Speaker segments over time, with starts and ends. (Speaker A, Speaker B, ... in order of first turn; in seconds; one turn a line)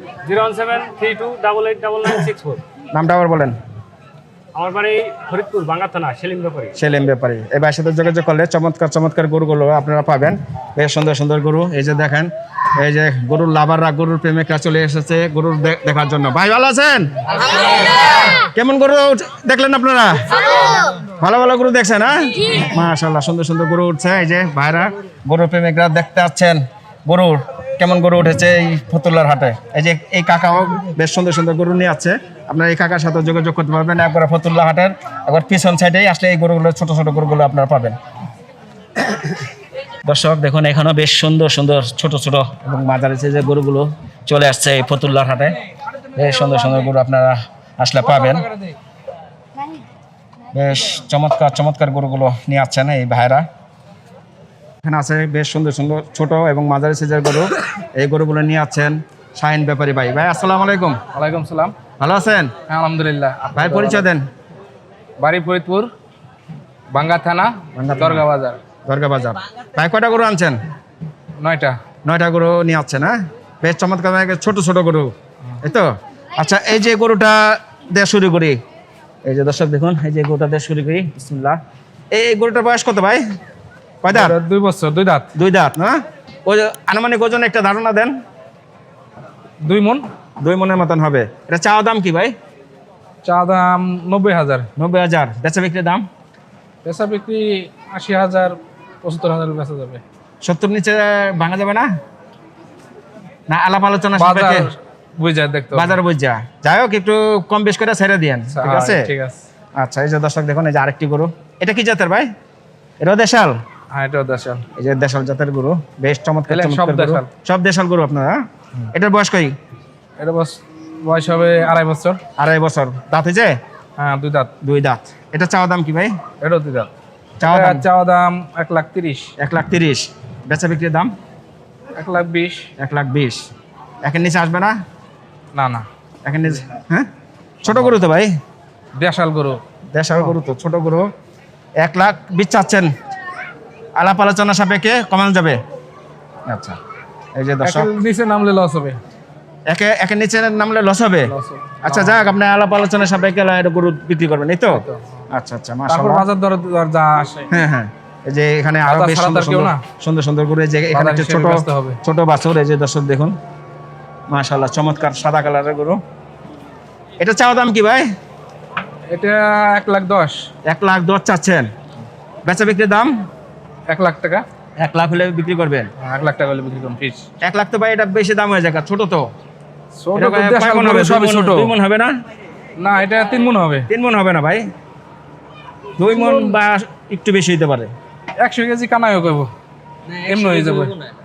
Speaker A: 0.2-2.6
Speaker B: 2.9-3.6
Speaker A: 4.5-6.8
Speaker B: 6.8-17.2
Speaker B: 18.4-38.0
Speaker B: 40.0-45.6
Speaker B: 46.1-48.5
Speaker B: 50.5-53.5
Speaker B: 54.8-61.0
Speaker C: 61.1-61.7
Speaker B: 62.0-62.6
Speaker C: 62.7-64.1
Speaker B: 63.6-64.3
Speaker C: 65.2-65.9
Speaker C: 66.9-68.6
Speaker B: 67.8-68.2
Speaker B: 68.8-70.6
Speaker C: 71.4-71.8
Speaker B: 72.0-78.6
Speaker B: 79.2-81.6
Speaker B: 82.1-83.2
Speaker B: 84.0-84.3
Speaker C: 84.1-85.3
Speaker B: 85.3-88.2
Speaker C: 89.6-90.0
Speaker B: 90.4-92.3
Speaker C: 93.2-94.7
Speaker B: 94.8-96.1
Speaker C: 96.8-100.0
Speaker B: 100.4-101.9
Speaker B: 103.5-104.7
Speaker C: 104.2-106.0
Speaker B: 105.7-109.1
Speaker C: 108.5-109.4
Speaker B: 109.8-112.3
Speaker B: 113.0-113.6
Speaker C: 113.9-114.6
Speaker B: 114.8-118.4
Speaker C: 116.5-117.3
Speaker B: 118.9-119.5
Speaker C: 120.2-122.2
Speaker B: 122.4-123.5
Speaker C: 124.0-124.5
Speaker B: 124.6-126.2
Speaker C: 126.4-126.9
Speaker B: 127.4-127.8
Speaker C: 127.4-129.3
Speaker B: 129.4-131.1
Speaker C: 131.9-132.7
Speaker B: 132.8-133.5
Speaker B: 134.0-134.8
Speaker C: 135.5-135.8
Speaker B: 136.2-137.1
Speaker B: 137.6-138.3
Speaker C: 138.9-139.6
Speaker B: 139.9-141.1
Speaker B: 141.8-142.9
Speaker B: 143.9-145.6
Speaker B: 146.5-146.8
Speaker B: 147.3-147.9
Speaker C: 147.6-149.0
Speaker B: 149.7-156.3
Speaker C: 151.3-152.3
Speaker C: 154.7-155.0
Speaker C: 155.9-157.5
Speaker B: 157.5-163.4
Speaker C: 158.8-159.8
Speaker C: 160.9-162.0
Speaker B: 164.3-166.0
Speaker B: 167.2-168.1
Speaker C: 169.1-170.4
Speaker B: 170.7-171.7
Speaker B: 172.4-173.2
Speaker C: 173.9-174.4
Speaker B: 174.8-175.9
Speaker C: 176.0-177.2
Speaker B: 177.4-179.3
Speaker C: 180.0-181.7
Speaker B: 180.2-182.2
Speaker C: 182.8-183.9
Speaker B: 183.9-184.7
Speaker B: 186.0-187.9
Speaker C: 186.0-186.5
Speaker C: 188.4-189.5
Speaker C: 190.1-191.0